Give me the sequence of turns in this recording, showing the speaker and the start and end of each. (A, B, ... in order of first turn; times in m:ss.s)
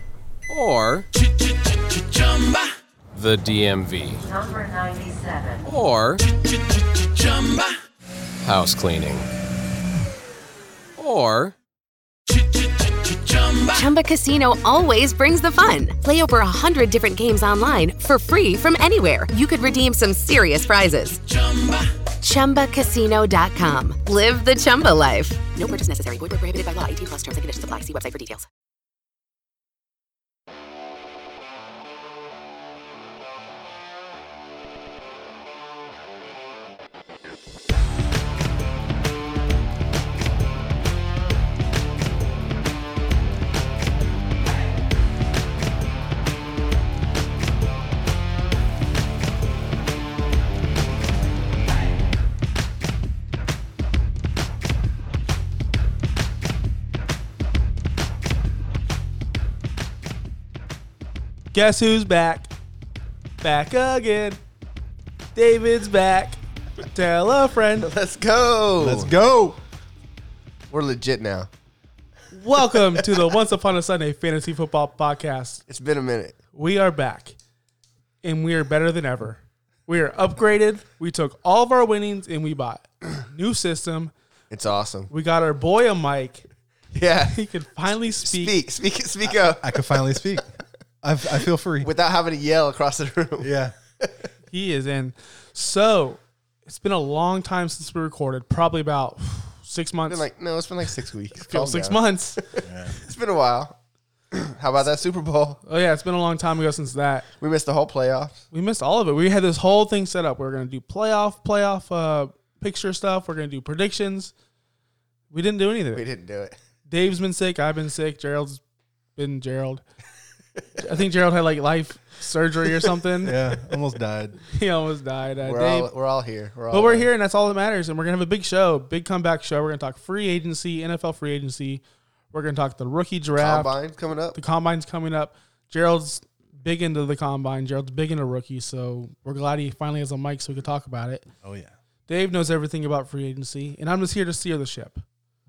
0:00.5-0:01.1 A
0:01.9-0:04.5 A
0:04.5-0:05.6 B
0:05.6-0:07.7 A
0:08.4-0:09.3 A
0:11.0-0:11.5 A
0:13.2-0:13.6 A
0:13.7-0:21.3 B
0:22.2-0:28.4 B
1:01.5-1:02.5 C
1:03.4-1:04.4 C
1:05.3-1:07.9 C
1:07.8-1:09.2 D
1:08.8-1:09.6 E
1:10.7-1:11.5 D
1:12.3-1:15.6 C
1:12.6-1:13.2 D
1:15.7-1:16.4 D
1:16.5-1:17.4 C
1:18.2-1:24.1 C
1:24.5-1:25.1 D
1:25.1-1:26.4 C
1:26.9-1:27.4 D
1:27.3-1:28.5 C
1:28.1-1:30.4 D
1:29.6-1:30.5 E
1:31.0-1:31.9 E
1:31.8-1:34.3 D
1:33.4-1:33.7 E
1:34.5-1:40.2 C
1:40.1-1:43.8 D
1:41.5-1:42.4 C
1:42.6-1:43.0 E
1:44.3-1:45.6 D
1:45.6-1:47.3 C
1:47.4-1:48.4 D
1:48.5-1:54.3 C
1:55.3-1:56.0 C
1:55.9-1:56.6 D
1:56.9-1:58.6 C
1:59.2-1:59.8 C
2:00.8-2:03.4 C
2:03.2-2:04.4 E
2:04.5-2:05.9 C
2:05.4-2:07.1 D
2:06.7-2:13.7 C
2:13.4-2:14.4 D
2:14.3-2:21.3 C
2:21.4-2:21.7 E
2:22.1-2:25.0 C